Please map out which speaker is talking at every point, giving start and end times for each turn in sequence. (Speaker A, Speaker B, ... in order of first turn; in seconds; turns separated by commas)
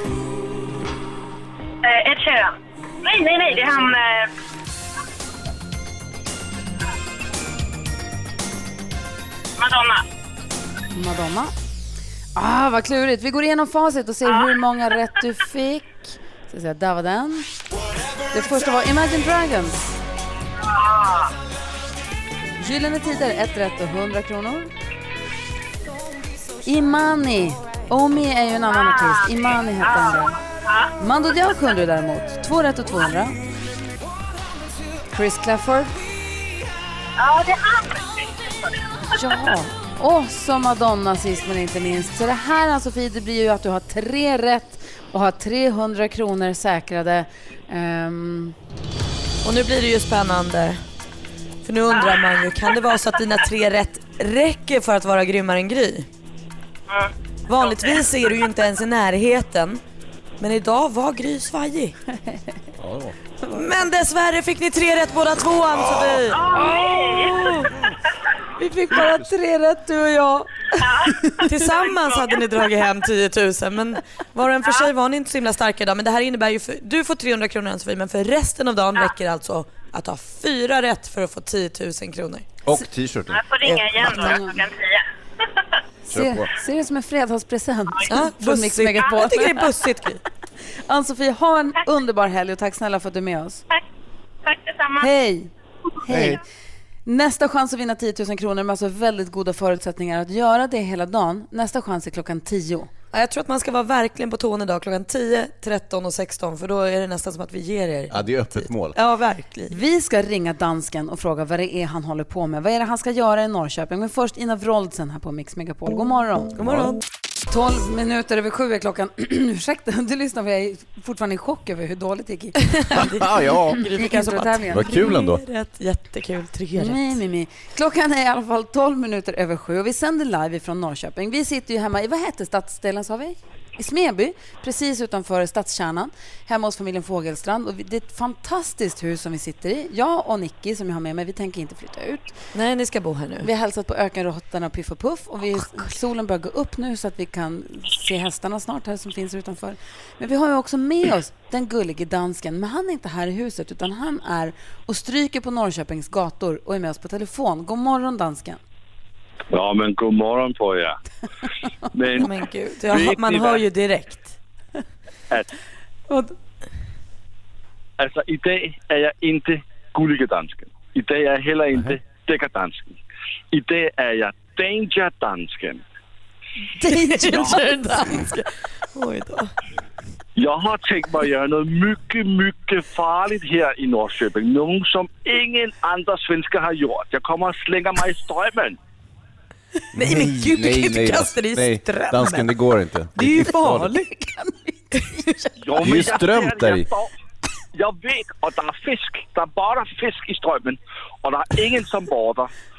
Speaker A: 1.8-4.3, Speaker B: 3.6-3.9, Speaker A: 9.6-10.0, Speaker B: 10.9-11.5, Speaker B: 12.4-17.5, Speaker A: 14.3-14.5, Speaker B: 18.3-19.9, Speaker A: 20.6-21.3, Speaker B: 22.6-24.7, Speaker B: 26.6-30.4, Speaker A: 28.7-29.3, Speaker A: 29.8-30.9, Speaker B: 31.0-33.4, Speaker B: 35.1-36.0, Speaker A: 37.2-38.1, Speaker B: 39.1-48.5, Speaker C: 49.4-50.8, Speaker C: 51.6-56.1, Speaker A: 51.9-52.2, Speaker C: 57.5-59.8, Speaker A: 57.6-58.0, Speaker C: 60.4-62.0, Speaker D: 62.8-63.2, Speaker C: 63.5-67.7, Speaker A: 66.3-67.6, Speaker B: 66.5-67.7, Speaker B: 68.6-71.5, Speaker D: 69.0-69.3, Speaker A: 70.8-71.2, Speaker C: 71.4-82.5, Speaker A: 71.9-72.4, Speaker D: 82.6-83.7, Speaker A: 83.3-85.0, Speaker C: 83.7-84.3, Speaker B: 83.9-84.6, Speaker B: 86.1-89.7, Speaker D: 86.1-86.5, Speaker C: 88.1-90.2, Speaker B: 90.9-93.6, Speaker A: 94.4-95.1, Speaker B: 95.0-95.5, Speaker B: 96.0-96.4, Speaker D: 96.1-96.4, Speaker B: 97.1-102.9, Speaker C: 103.1-109.8, Speaker D: 108.1-109.0, Speaker B: 109.7-116.5, Speaker C: 116.6-117.0, Speaker D: 116.6-116.9, Speaker B: 117.5-122.9, Speaker C: 122.6-127.2, Speaker D: 123.0-123.8, Speaker B: 123.9-125.1, Speaker D: 124.7-125.4, Speaker B: 126.8-142.4, Speaker C: 142.5-143.5, Speaker B: 143.4-158.6, Speaker E: 159.5-161.0, Speaker E: 161.9-162.3, Speaker C: 162.2-164.4, Speaker E: 162.9-163.6, Speaker B: 166.1-166.3, Speaker E: 168.0-173.0, Speaker E: 173.5-175.8, Speaker B: 176.8-178.2, Speaker C: 177.1-179.5, Speaker E: 177.3-177.6, Speaker E: 180.4-188.8, Speaker C: 189.9-192.5, Speaker D: 189.9-193.9, Speaker C: 193.2-194.1, Speaker B: 193.9-195.0, Speaker C: 194.9-195.2, Speaker E: 195.6-197.1, Speaker D: 195.8-196.9, Speaker E: 197.8-202.5